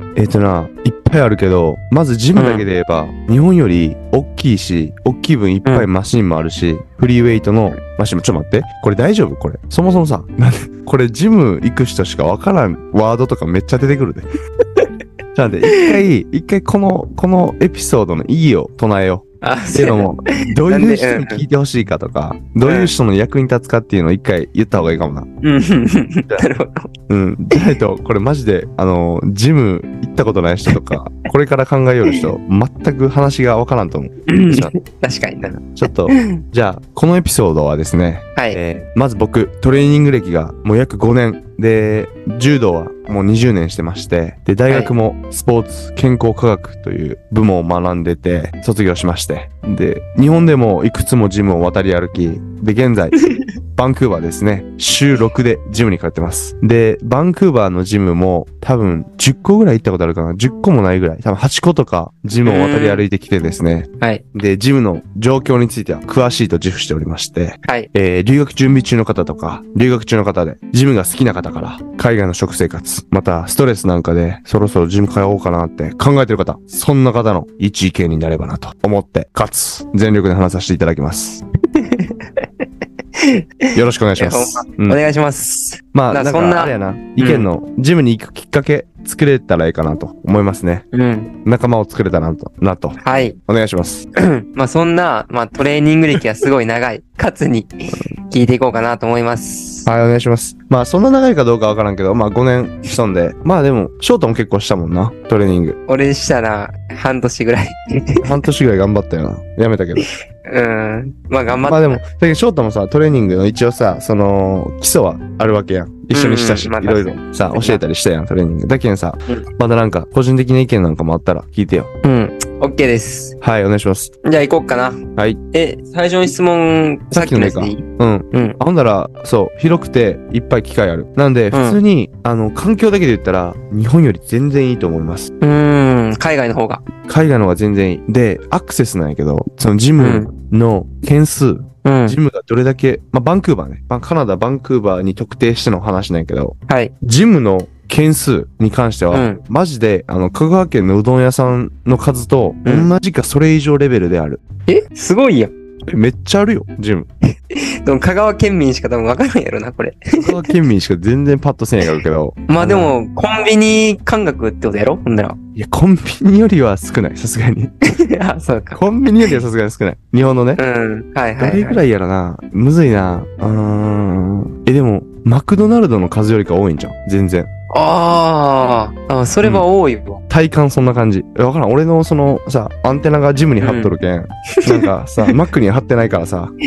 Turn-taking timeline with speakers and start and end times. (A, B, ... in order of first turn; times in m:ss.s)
0:00.2-0:14.2 A
0:02.3-0:02.6 B
0:15.3-0:25.3 A
0:15.7-0:15.9 B
0:19.4-0:21.4 B
0:22.6-0:22.9 B
0:25.4-0:26.9 B
0:27.1-0:34.7 A
0:34.3-0:36.4 B
0:35.6-0:53.2 A
0:53.7-1:21.4 A
1:02.4-1:03.0 B
1:21.8-1:22.1 B
1:23.1-1:27.5 B
1:23.7-1:25.0 A
1:25.9-1:30.9 A
1:30.9-1:31.3 B
1:31.4-1:34.1 A
1:33.0-1:33.4 B
1:34.2-1:39.9 B
1:39.8-1:45.8 A
1:45.9-1:48.4 B
1:48.2-1:50.1 A
1:50.4-1:52.0 B
1:51.6-2:01.9 A
1:56.1-1:57.8 B
2:02.0-2:03.4 B
2:03.4-2:04.1 A
2:04.2-2:05.0 B
2:05.5-2:08.6 B
2:07.1-2:15.3 A
2:11.5-2:11.8 B
2:15.4-2:16.8 B
2:17.1-2:34.4 A
2:20.0-2:20.3 B
2:21.8-2:22.2 B
2:29.1-2:29.4 B
2:32.6-2:32.9 B
2:34.7-2:35.5 B
2:35.9-2:37.1 A
2:37.5-2:40.6 B
2:40.1-2:42.9 A
2:42.5-2:45.4 B
2:45.6-2:47.7 A
2:47.9-2:48.8 B
2:48.7-2:50.6 A
2:50.6-2:51.8 B
2:51.4-2:57.5 A
2:57.7-3:00.2 B
3:00.3-3:06.5 A
3:03.6-3:03.9 B
3:04.6-3:05.3 B